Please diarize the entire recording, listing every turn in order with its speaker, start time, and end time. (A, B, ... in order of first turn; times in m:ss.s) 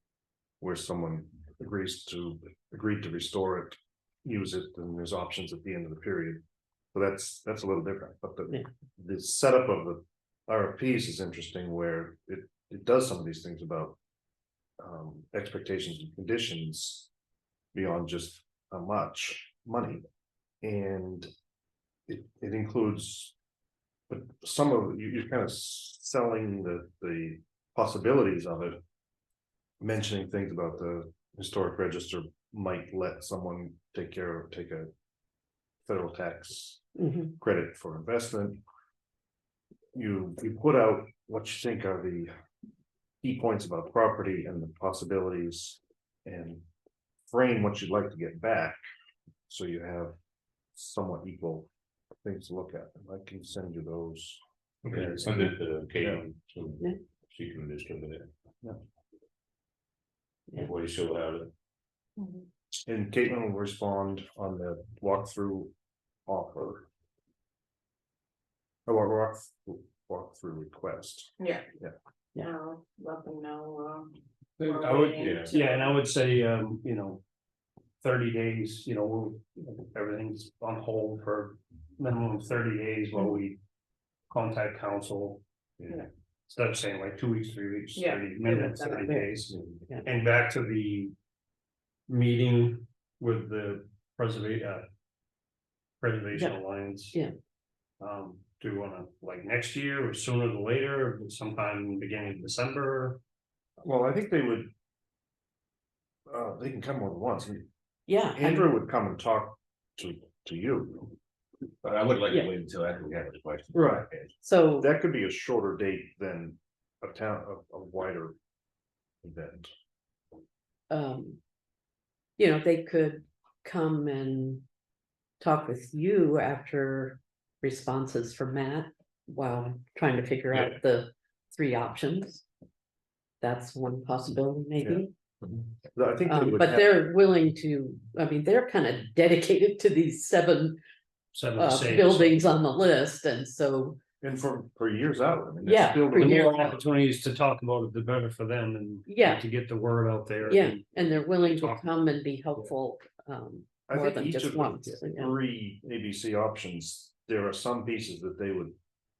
0:00.6-0:06.4 A
0:06.9-0:14.0 A
0:14.8-0:17.1 A
0:17.7-0:20.0 A
0:20.6-0:21.3 A
0:22.1-0:23.3 A
0:24.1-0:28.8 A
0:29.8-0:34.9 A
0:35.8-0:36.8 A
0:37.0-0:37.3 B
0:37.4-0:38.6 A
0:39.9-0:42.3 A
0:43.2-0:46.6 A
0:47.3-0:48.8 A
0:49.5-0:50.1 A
0:50.7-0:51.7 A
0:52.2-0:56.2 A
0:54.8-0:58.3 C
1:00.5-1:01.5 C
1:02.2-1:02.5 D
1:02.8-1:05.7 A
1:06.3-1:06.9 A
1:08.8-1:11.9 A
1:11.4-1:11.6 D
1:12.4-1:15.9 D
1:14.6-1:17.2 E
1:15.1-1:15.6 C
1:18.0-1:23.6 E
1:24.3-1:31.1 E
1:27.9-1:29.0 D
1:28.8-1:29.3 B
1:32.1-1:34.8 E
1:36.0-1:37.2 E
1:38.0-1:43.2 E
1:43.8-1:44.7 A
1:46.3-1:47.7 A
1:48.1-1:48.7 B
1:48.3-1:51.1 A
1:51.8-1:54.3 F
1:53.7-1:54.1 A
1:54.4-1:54.9 B
1:54.8-1:58.4 A
1:59.2-1:59.7 A
2:00.9-2:01.4 B
2:02.4-2:04.6 B
2:05.4-2:12.4 B
2:13.4-2:15.1 B
2:15.8-2:17.1 A
2:16.2-2:20.8 B
2:21.3-2:22.4 E
2:21.6-2:24.0 B
2:24.2-2:26.7 A
2:25.6-2:26.8 B
2:26.1-2:31.8 E
2:29.1-2:29.4 B
2:30.4-2:35.4 B
2:33.9-2:38.7 A